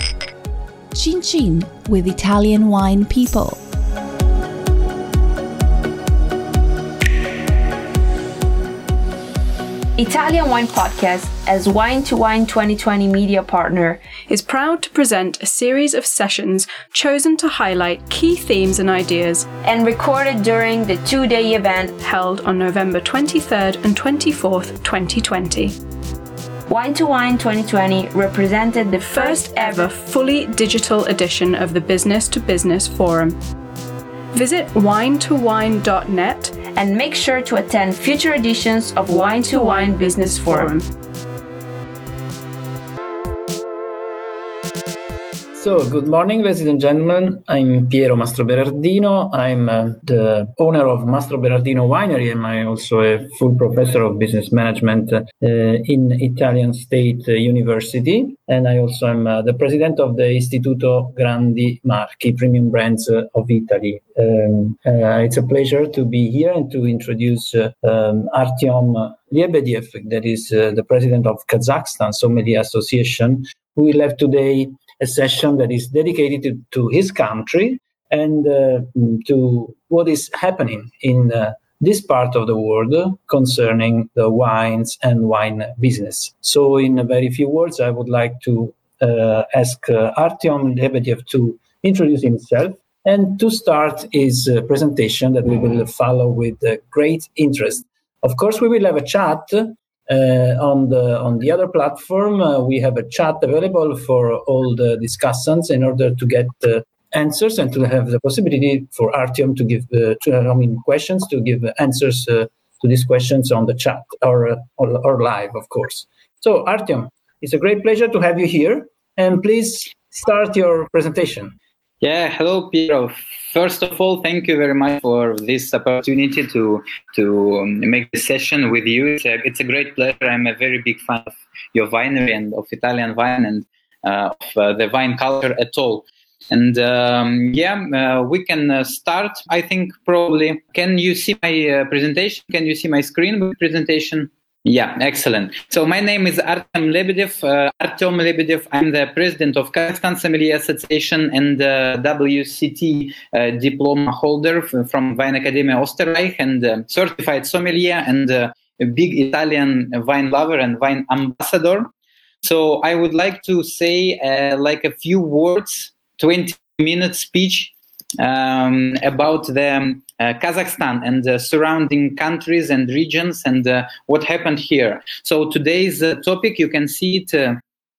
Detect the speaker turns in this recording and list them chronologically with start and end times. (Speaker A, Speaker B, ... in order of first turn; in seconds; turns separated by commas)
Speaker A: 0.9-3.6, Speaker B: 10.0-14.0, Speaker C: 14.3-19.5, Speaker B: 19.6-21.9, Speaker C: 22.0-25.7, Speaker B: 26.7-29.9, Speaker C: 29.1-33.4, Speaker C: 34.3-36.5, Speaker B: 36.7-40.7, Speaker C: 39.8-40.9, Speaker D: 45.5-121.5, Speaker E: 122.0-161.9, Speaker E: 162.4-177.6